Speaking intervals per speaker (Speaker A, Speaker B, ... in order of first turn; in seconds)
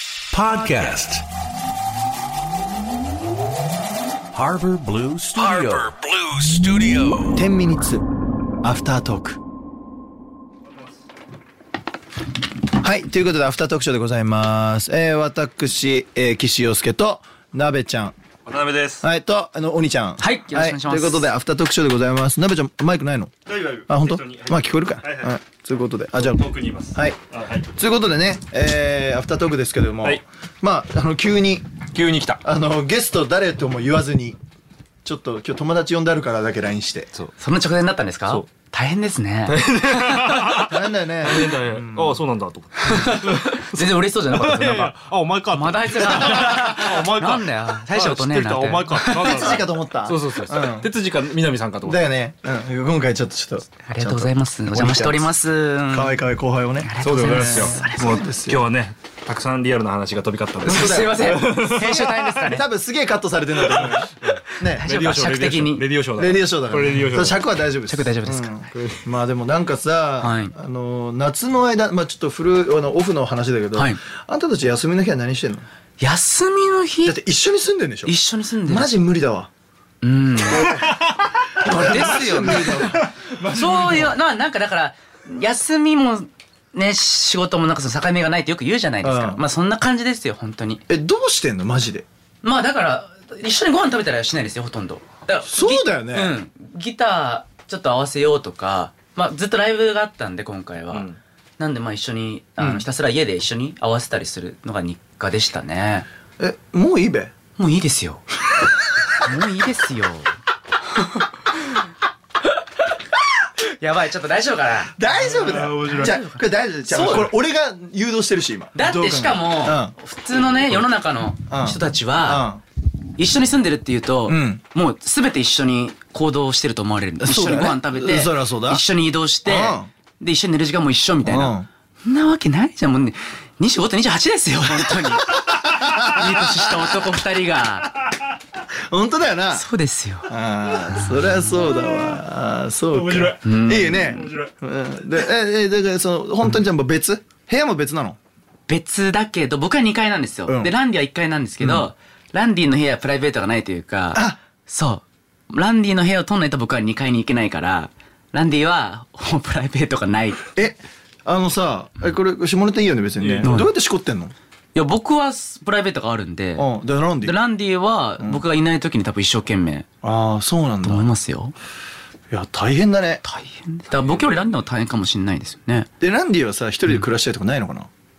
Speaker A: 0.3-1.2, 4.3-7.4
Speaker B: 7.3-8.0, 8.6-9.4, 12.7-18.1, 19.0-23.3, 23.9-27.2, 27.7-34.4, 35.0-37.1, 40.4-42.2, 49.1-50.9, 51.8-55.3, 55.9-58.6, 60.6-64.9, 66.2-75.6, 77.0-79.5, 80.4-81.0, 81.5-84.1, 89.0-89.4, 90.9-92.0, 95.4-96.4, 102.6-102.8, 106.4-107.3, 115.0-119.9, 121.5-122.6, 124.3-124.6, 127.2-128.8, 129.4-129.9, 131.2-131.7, 135.6-136.9, 138.9-139.7, 140.2-148.2, 150.5-150.7, 151.6-151.9, 154.1-154.4, 160.5-164.3, 166.6-167.4, 170.0-171.1, 172.3-173.2, 176.0-177.9
Speaker C: 18.4-19.0, 23.4-25.4, 26.1-27.7, 31.9-32.4, 39.5-52.0, 57.0-62.2, 63.6-67.5, 68.7-69.0, 80.8-81.1, 82.4-84.0, 100.9-101.2, 115.2-116.2, 142.9-144.5, 163.2-163.5, 173.9-174.6
Speaker D: 20.2-21.3, 37.4-39.7, 42.9-44.9, 45.5-49.5, 53.9-56.2, 56.8-58.2, 60.6-62.6, 64.6-65.8, 67.9-68.5, 70.2-70.5, 76.0-77.2, 78.0-79.0, 80.0-80.9, 81.6-90.8, 92.4-101.1, 101.6-106.1, 107.6-108.2, 109.2-110.3, 113.6-117.3, 118.7-122.5, 123.2-137.9, 139.5-140.3, 140.9-141.4, 143.4-144.2, 148.7-160.5, 163.4-163.7, 164.7-166.7, 167.2-169.9, 170.8-171.5, 173.2-175.9